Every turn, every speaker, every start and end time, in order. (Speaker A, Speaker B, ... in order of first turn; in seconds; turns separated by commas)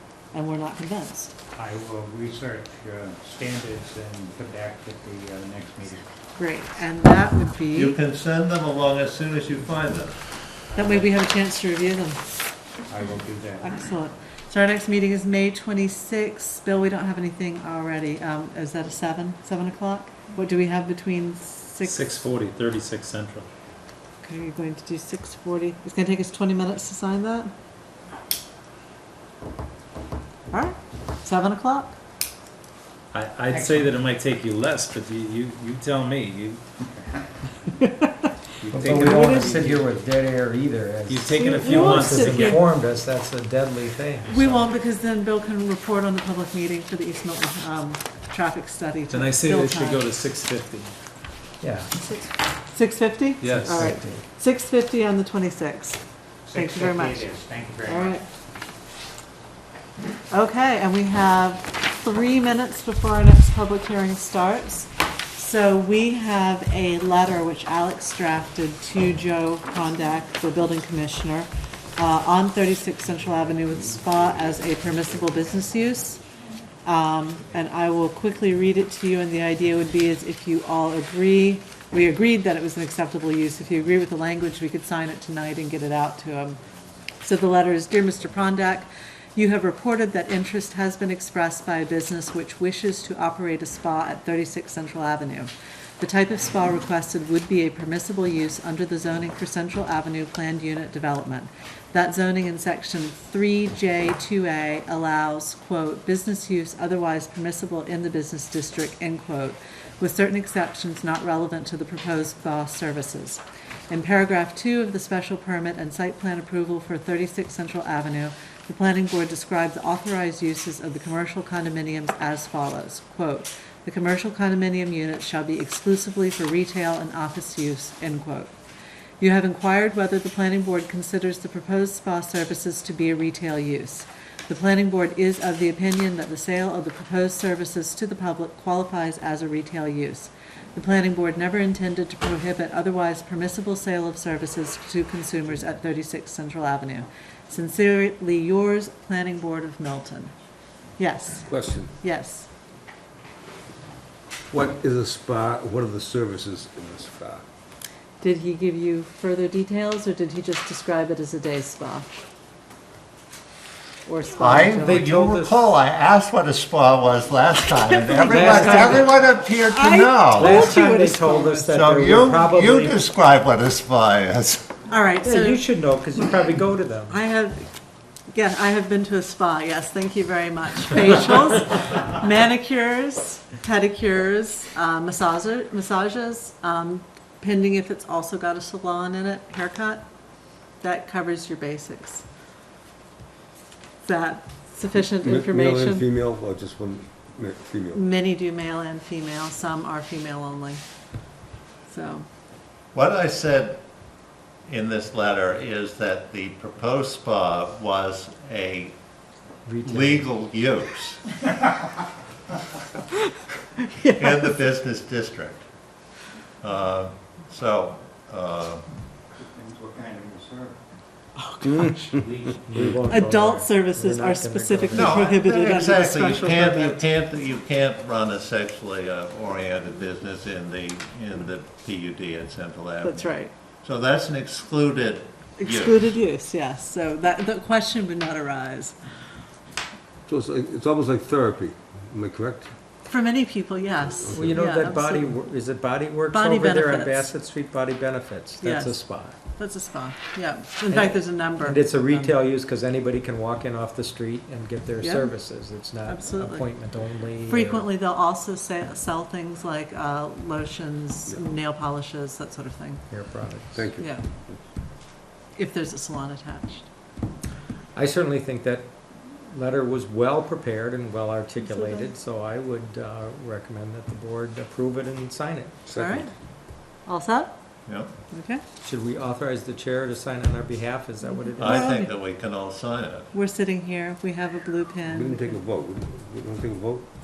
Speaker A: 0.3-1.3, Speaker B: 1.5-6.1, Speaker A: 6.4-8.0, Speaker C: 7.7-10.2, Speaker B: 10.7-11.1, Speaker A: 10.7-12.3, Speaker B: 12.9-13.8, Speaker A: 13.6-22.1, Speaker D: 21.8-23.5, Speaker A: 24.2-27.5, Speaker A: 30.5-31.9, Speaker D: 33.1-36.6, Speaker B: 33.5-34.0, Speaker B: 36.5-37.3, Speaker B: 38.6-39.8, Speaker D: 38.7-39.5, Speaker E: 38.7-44.7, Speaker A: 39.0-39.6, Speaker D: 41.1-42.6, Speaker A: 41.3-42.6, Speaker A: 44.3-50.0, Speaker D: 49.1-50.9, Speaker E: 51.6-51.9, Speaker A: 52.7-56.0, Speaker D: 53.4-54.0, Speaker E: 53.4-54.2, Speaker B: 56.5-58.2, Speaker A: 56.5-58.2, Speaker A: 60.3-76.2, Speaker A: 76.8-86.6, Speaker A: 87.2-128.5, Speaker A: 129.2-150.3, Speaker A: 151.0-152.5, Speaker F: 151.5-151.9, Speaker F: 154.5-157.4, Speaker A: 158.2-162.1, Speaker A: 164.1-165.0, Speaker C: 164.4-170.7, Speaker E: 164.8-165.5, Speaker A: 167.8-169.1, Speaker E: 168.2-169.1, Speaker A: 169.6-171.8, Speaker E: 170.4-173.0, Speaker C: 171.7-174.7, Speaker A: 174.9-175.6, Speaker E: 175.2-177.2, Speaker A: 177.1-177.7, Speaker A: 178.3-190.0, Speaker A: 190.8-192.2, Speaker A: 194.0-196.0, Speaker F: 195.2-198.0, Speaker A: 197.9-200.8, Speaker A: 201.9-202.2, Speaker C: 202.9-203.8, Speaker C: 204.6-208.9, Speaker E: 209.7-210.3, Speaker C: 209.8-211.2, Speaker A: 213.8-214.6, Speaker C: 214.1-215.6, Speaker C: 216.6-218.8, Speaker B: 219.4-220.8, Speaker A: 221.4-222.2, Speaker B: 222.2-222.6, Speaker E: 222.7-225.3, Speaker A: 223.0-227.0, Speaker C: 224.9-236.0, Speaker A: 233.0-233.5, Speaker A: 235.6-238.9, Speaker F: 240.3-242.7, Speaker A: 243.1-245.4, Speaker F: 244.2-244.6, Speaker E: 244.3-249.4, Speaker A: 246.3-247.3, Speaker A: 248.6-252.4, Speaker E: 250.9-257.9, Speaker A: 255.0-256.7, Speaker A: 257.4-263.0, Speaker E: 263.1-263.9, Speaker F: 263.7-264.6, Speaker A: 264.0-264.2, Speaker A: 265.6-266.9, Speaker E: 267.9-275.8, Speaker A: 271.6-272.1, Speaker F: 275.9-276.3, Speaker A: 275.9-276.3, Speaker A: 277.1-277.6, Speaker A: 278.3-278.6, Speaker E: 278.8-281.9, Speaker A: 281.4-282.1, Speaker C: 281.6-283.3, Speaker A: 283.3-285.6, Speaker F: 285.1-287.1